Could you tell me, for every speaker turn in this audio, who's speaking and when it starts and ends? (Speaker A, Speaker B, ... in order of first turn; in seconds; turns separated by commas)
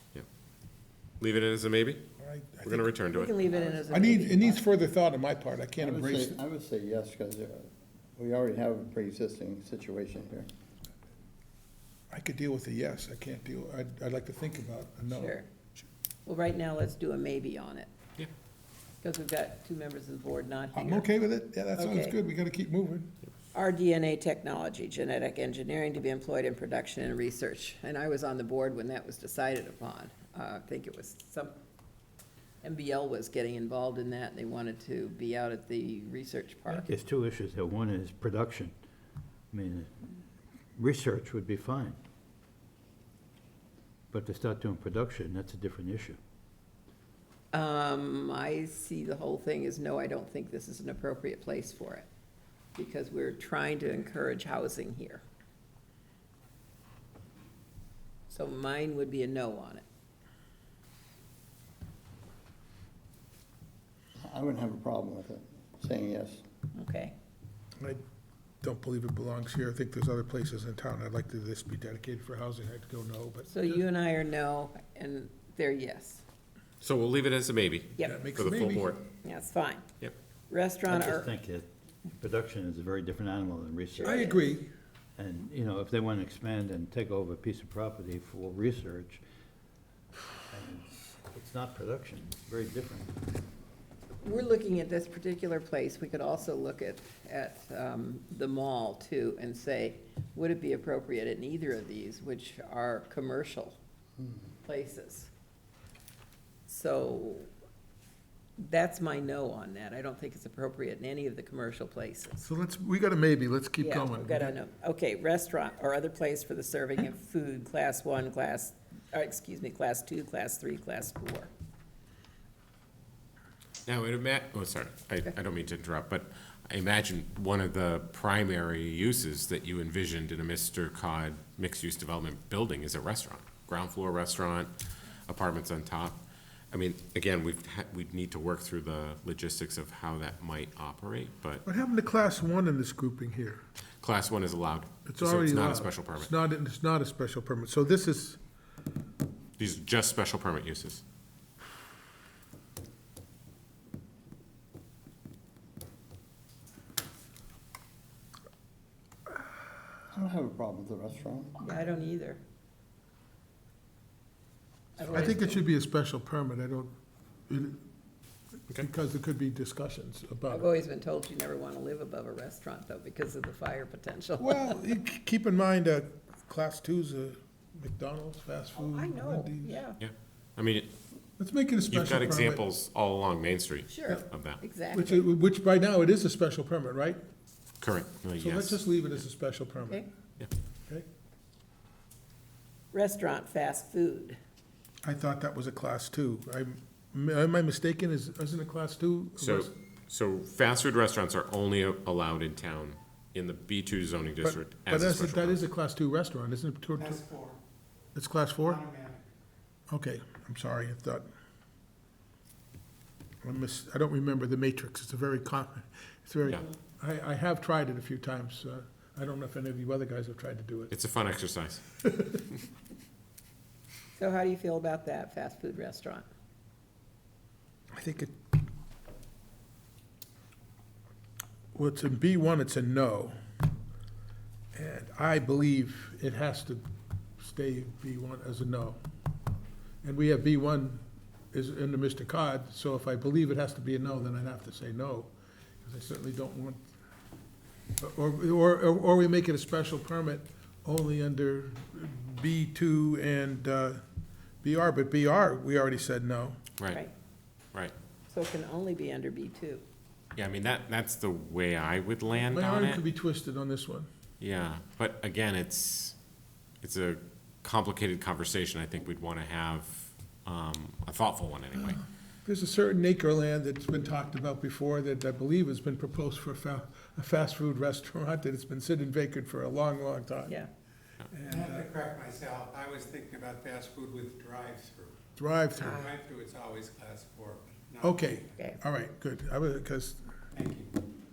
Speaker A: 1.2-2.0, Speaker B: 2.2-2.9, Speaker A: 2.6-3.4, Speaker C: 3.1-4.6, Speaker B: 3.6-6.4, Speaker D: 5.8-10.5, Speaker B: 12.1-15.8, Speaker C: 15.1-15.5, Speaker C: 16.3-17.9, Speaker C: 19.0-21.1, Speaker B: 20.8-23.1, Speaker C: 21.8-22.2, Speaker C: 23.5-31.6, Speaker C: 32.6-36.9, Speaker E: 36.7-38.8, Speaker E: 39.5-40.2, Speaker E: 40.8-42.0, Speaker E: 44.1-46.2, Speaker C: 47.5-52.1, Speaker C: 52.8-55.2, Speaker C: 58.3-59.8, Speaker D: 64.2-66.4, Speaker C: 66.8-67.2, Speaker B: 68.6-73.8, Speaker C: 73.5-76.2, Speaker A: 76.8-79.0, Speaker C: 78.0-78.3, Speaker B: 78.0-79.0, Speaker C: 79.2-79.8, Speaker C: 80.5-81.3, Speaker E: 80.9-84.2, Speaker C: 84.0-84.4, Speaker B: 84.0-84.7, Speaker E: 85.2-89.2, Speaker E: 90.5-93.2, Speaker C: 94.2-103.8, Speaker C: 104.6-105.3, Speaker C: 106.7-107.5, Speaker C: 108.6-112.5, Speaker B: 112.4-114.5, Speaker C: 113.8-121.5, Speaker A: 123.9-134.7, Speaker A: 135.3-136.2, Speaker A: 136.7-141.6, Speaker B: 141.7-143.6, Speaker A: 144.0-146.3, Speaker B: 145.1-148.4, Speaker A: 149.6-151.0, Speaker D: 160.1-161.7, Speaker C: 161.6-162.4, Speaker C: 165.0-165.6, Speaker B: 165.0-166.9, Speaker B: 167.5-167.8, Speaker B: 168.7-170.7, Speaker C: 170.5-174.8, Speaker B: 174.4-179.8, Speaker C: 178.8-180.0, Speaker A: 180.0-180.9, Speaker B: 181.4-182.6, Speaker A: 181.9-184.6, Speaker C: 183.9-185.2, Speaker B: 184.9-187.2, Speaker A: 187.8-188.8, Speaker B: 188.4-190.0, Speaker C: 189.8-190.1, Speaker C: 192.9-194.4, Speaker B: 195.0-199.7, Speaker A: 199.4-205.6, Speaker B: 204.4-207.2, Speaker B: 208.2-208.8, Speaker B: 209.9-211.3, Speaker B: 213.4-220.9, Speaker A: 220.9-221.8, Speaker C: 224.2-226.3, Speaker B: 227.9-228.3, Speaker B: 231.7-233.3, Speaker B: 234.8-236.8, Speaker B: 237.4-239.0, Speaker B: 240.0-246.8, Speaker B: 248.0-254.0, Speaker B: 254.6-256.6, Speaker C: 258.3-259.8, Speaker A: 260.4-263.0, Speaker B: 262.5-264.1, Speaker A: 264.4-266.1, Speaker A: 266.8-272.0, Speaker B: 271.8-280.6, Speaker B: 281.3-281.9, Speaker F: 281.5-285.2, Speaker B: 285.4-286.0, Speaker C: 285.8-286.1, Speaker F: 285.8-288.2, Speaker B: 288.0-290.2, Speaker F: 290.5-290.9